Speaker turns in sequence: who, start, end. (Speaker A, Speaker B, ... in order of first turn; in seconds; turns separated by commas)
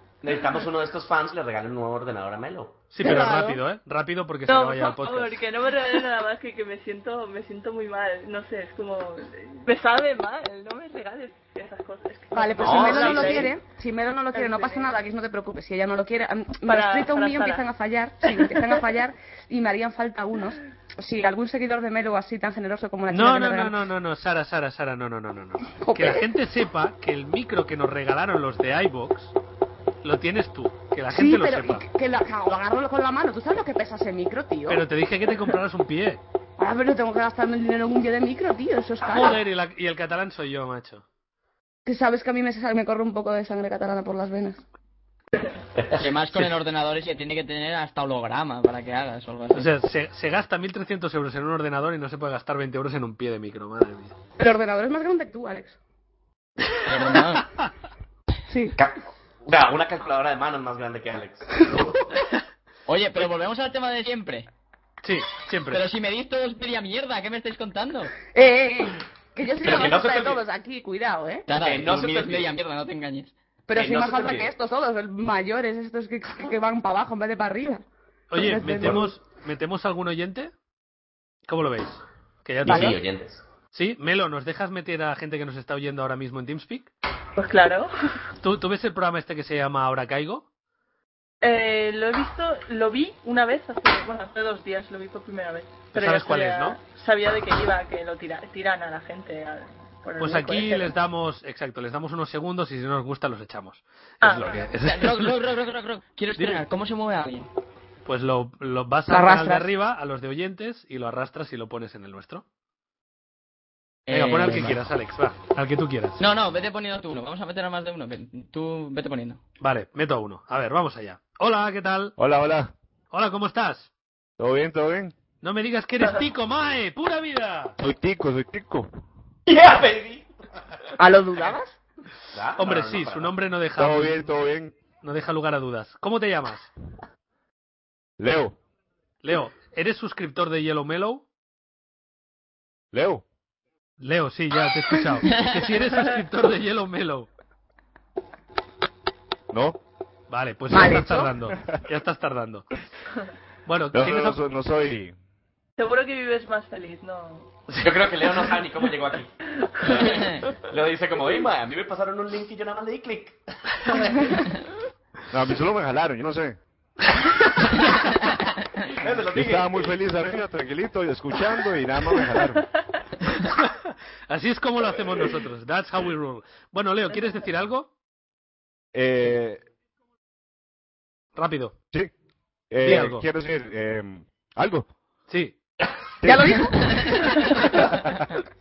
Speaker A: 0.2-2.8, Speaker B: 2.9-5.4, Speaker C: 3.0-3.6, Speaker D: 4.5-13.5, Speaker C: 12.3-23.8, Speaker A: 12.6-13.5, Speaker D: 14.3-14.9, Speaker D: 16.6-17.6, Speaker B: 23.1-29.3, Speaker C: 25.8-26.2, Speaker B: 30.0-31.8, Speaker C: 31.1-34.8, Speaker B: 34.7-36.2, Speaker C: 36.6-39.4, Speaker B: 39.0-41.0, Speaker C: 41.9-44.6, Speaker E: 45.9-49.7, Speaker B: 49.5-54.1, Speaker C: 54.4-55.8, Speaker E: 56.9-57.5, Speaker C: 58.5-58.7, Speaker A: 58.8-62.0, Speaker E: 62.9-64.5, Speaker B: 65.0-65.8, Speaker E: 65.7-68.1, Speaker C: 68.3-71.5, Speaker A: 69.6-70.4, Speaker E: 71.5-73.3, Speaker A: 71.6-72.5, Speaker C: 73.7-79.1, Speaker A: 73.7-74.5, Speaker B: 78.3-80.5, Speaker B: 81.5-83.0, Speaker A: 82.6-83.4, Speaker C: 82.6-82.9, Speaker B: 83.7-86.9, Speaker D: 87.4-87.9, Speaker B: 88.4-90.4, Speaker D: 91.4-100.9, Speaker B: 95.9-96.8, Speaker B: 100.2-105.4, Speaker D: 104.2-104.7, Speaker E: 104.7-107.5, Speaker B: 108.0-112.4, Speaker C: 109.1-109.7, Speaker E: 114.1-114.8, Speaker B: 114.1-116.2, Speaker E: 116.2-119.4, Speaker B: 119.6-122.2, Speaker F: 122.2-122.7, Speaker B: 123.1-123.9, Speaker F: 124.4-125.1, Speaker B: 125.4-127.8, Speaker F: 127.8-128.9, Speaker A: 129.5-130.2, Speaker C: 131.0-131.8, Speaker A: 132.3-133.3, Speaker B: 132.6-134.3, Speaker F: 133.8-134.8, Speaker B: 135.0-136.7, Speaker F: 138.2-138.6, Speaker B: 139.2-141.2, Speaker F: 142.9-143.2, Speaker B: 144.0-147.3, Speaker E: 145.2-145.6, Speaker F: 149.5-149.8, Speaker B: 150.3-152.7, Speaker C: 150.7-151.3, Speaker F: 151.5-151.8, Speaker B: 153.7-154.4, Speaker F: 153.9-155.1, Speaker D: 155.8-157.5, Speaker A: 157.8-159.3, Speaker D: 159.6-160.1, Speaker A: 159.8-163.4, Speaker E: 160.0-160.4, Speaker A: 163.9-164.3, Speaker F: 165.3-166.6, Speaker A: 169.0-170.0, Speaker F: 169.3-172.7, Speaker B: 173.4-177.9, Speaker F: 178.9-179.6, Speaker B: 181.3-181.7, Speaker F: 182.7-184.9, Speaker B: 182.8-183.2, Speaker B: 185.3-185.6, Speaker F: 186.2-186.8, Speaker C: 186.2-187.8, Speaker F: 187.7-188.3